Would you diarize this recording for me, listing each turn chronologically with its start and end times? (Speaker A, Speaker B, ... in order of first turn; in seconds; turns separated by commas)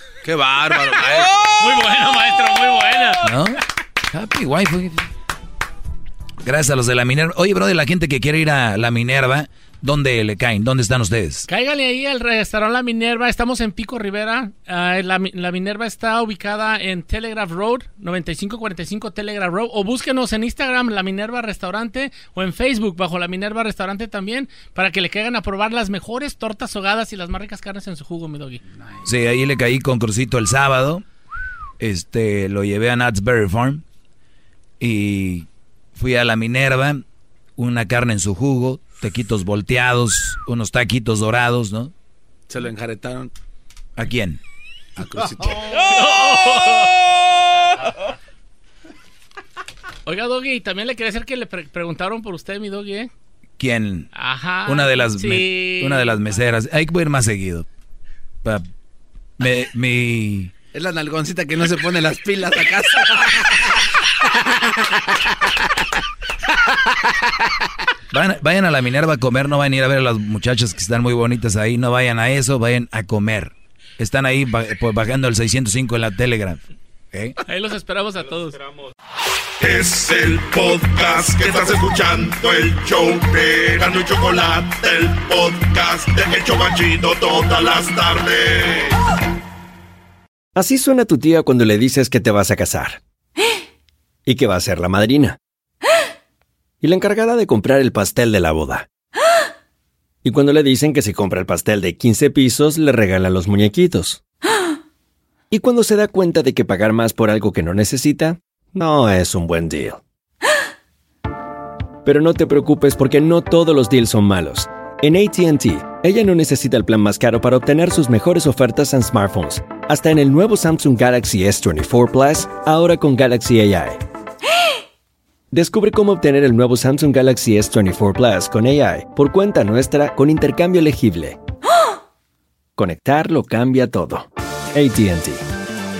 Speaker A: 0.2-1.7, Speaker B: 1.0-3.3, Speaker C: 3.2-3.6, Speaker C: 4.1-5.0, Speaker C: 6.4-11.5, Speaker B: 11.5-28.6, Speaker C: 29.0-31.0, Speaker C: 31.8-33.8, Speaker C: 34.8-37.0, Speaker C: 37.6-41.9, Speaker A: 42.5-43.3, Speaker C: 44.0-44.4, Speaker A: 45.0-46.0, Speaker B: 45.8-46.9, Speaker B: 50.0-53.1, Speaker C: 53.6-54.1, Speaker B: 54.1-56.2, Speaker C: 54.6-57.6, Speaker C: 59.4-60.5, Speaker A: 60.7-63.5, Speaker C: 68.1-77.3, Speaker B: 77.5-78.6, Speaker D: 79.6-89.0, Speaker E: 90.5-93.0, Speaker E: 94.2-95.4, Speaker E: 96.8-98.8, Speaker E: 100.2-104.2, Speaker E: 105.5-110.0, Speaker E: 112.0-124.0, Speaker E: 125.5-131.4, Speaker E: 132.8-135.4